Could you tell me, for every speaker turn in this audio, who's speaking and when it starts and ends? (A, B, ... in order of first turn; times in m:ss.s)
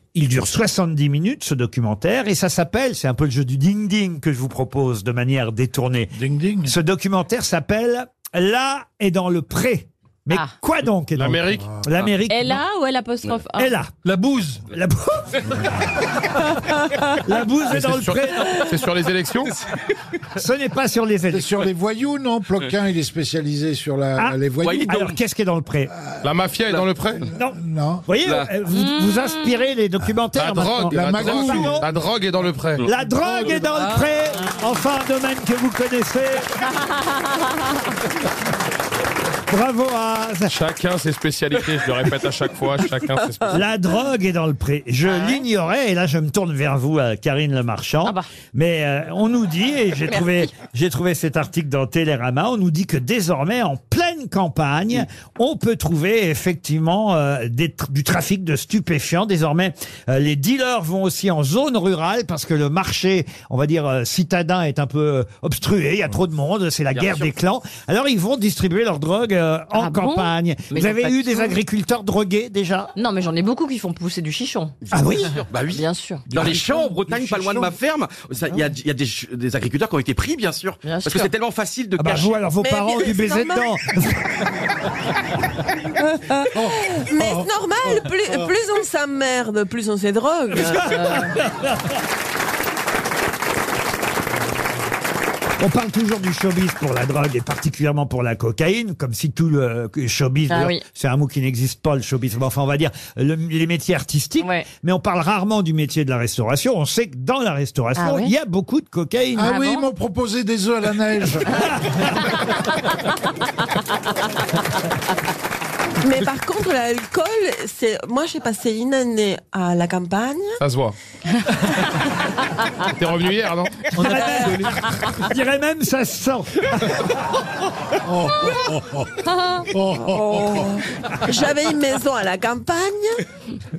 0:00.2-0:12.6 A
0:06.1-0:06.8 B
0:10.3-0:10.5 C
0:11.1-0:12.2 D
0:12.3-0:13.7 C
0:13.6-0:15.5 A
0:14.2-0:14.6 D
0:17.2-0:18.7 A
0:17.7-0:19.5 D
0:20.3-0:21.5 A
0:21.3-0:24.8 B
0:24.2-0:25.9 A
0:24.6-0:25.2 E
0:26.0-0:26.3 B
0:26.2-0:27.3 D
0:26.7-0:27.3 E
0:27.4-0:31.9 A
0:27.4-0:28.1 B
0:28.2-0:28.5 E
0:28.7-0:29.7 C
0:30.3-0:33.7 D
0:30.9-0:31.9 B
0:32.8-0:36.7 A
0:39.5-0:40.6 A
0:40.5-0:43.6 D
0:43.5-1:12.9 A
0:45.0-0:45.4 C
0:48.0-0:48.3 C
1:06.9-1:07.3 E
1:09.7-1:11.6 C
1:13.0-1:14.8 C
1:14.8-1:22.4 E
1:14.9-1:15.4 A
1:15.7-1:16.3 C
1:16.3-1:17.7 B
1:20.8-1:21.4 C
1:22.0-1:24.5 A
1:22.6-1:23.7 F
1:26.1-1:31.0 F
1:26.5-1:27.5 B
1:30.5-1:32.0 A
1:30.9-1:31.4 C
1:35.6-1:49.5 A
1:40.5-1:40.8 C
1:44.4-1:44.7 C
1:48.0-1:48.3 C
1:49.4-1:51.7 B
1:49.4-1:49.9 C
1:51.5-1:52.1 A
1:52.3-1:54.6 C
1:56.0-2:00.6 F
2:00.6-2:01.0 D
2:01.3-2:02.0 C
2:03.0-2:03.9 D
2:03.9-2:07.1 A
2:04.4-2:05.2 C
2:08.0-2:09.1 B
2:09.2-2:09.7 C
2:09.7-2:10.6 B
2:11.3-2:13.2 F